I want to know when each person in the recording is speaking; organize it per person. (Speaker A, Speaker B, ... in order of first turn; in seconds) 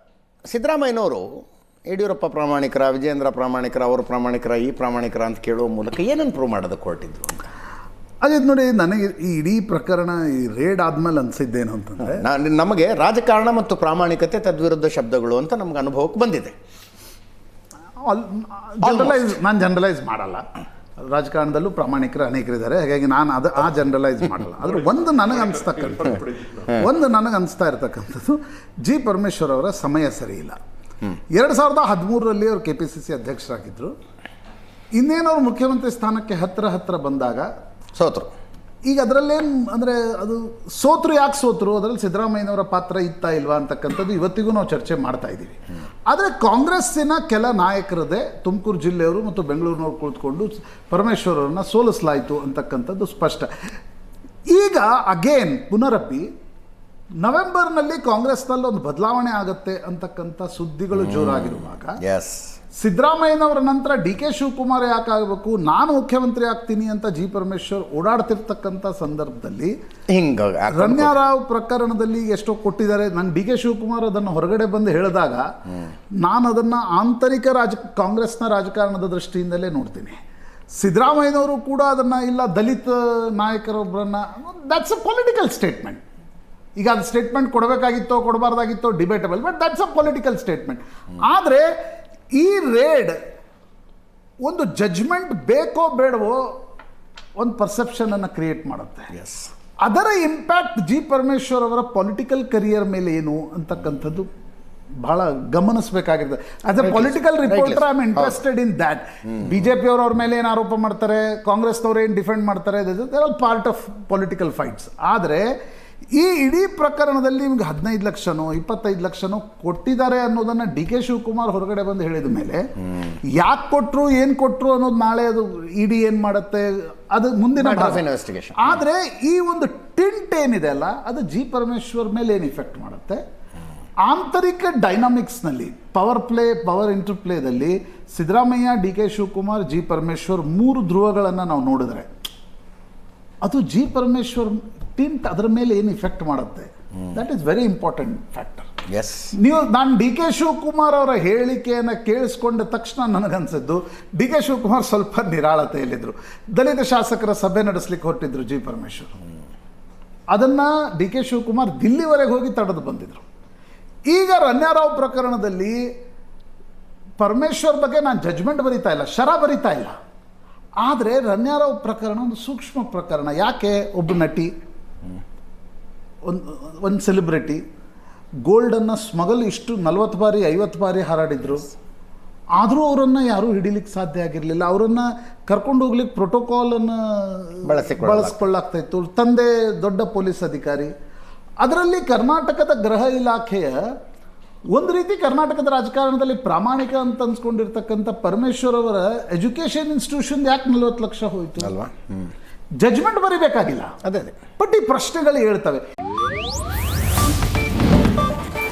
Speaker A: 0.5-7.4, 12.0-16.5, 18.8-19.3, 38.0-38.3, 60.9-62.5, 70.1-71.1, 99.1-99.5, 106.8-108.4, 127.6-128.8, 148.9-149.3, 187.6-188.4, 201.6-202.3, 204.0-204.4
Speaker B: 8.2-12.2, 18.0-20.4, 21.0-30.6, 31.3-33.9, 35.0-37.5, 38.9-53.5, 54.5-56.3, 57.2-62.0, 62.8-69.7, 70.7-75.5, 76.2-80.2, 80.8-86.0, 86.8-91.7, 92.3-93.2, 94.4-96.5, 97.4-99.1, 99.8-104.3, 105.0-115.5, 116.1-122.6, 123.3-128.0, 128.6-133.2, 134.0-142.1, 143.4-148.7, 149.3-159.1, 160.3-163.2, 164.1-165.9, 167.2-169.9, 170.8-174.5, 176.2-177.6, 178.4-181.7, 182.6-190.9, 191.6-193.8, 194.7-201.7, 202.8-203.9, 204.6-205.8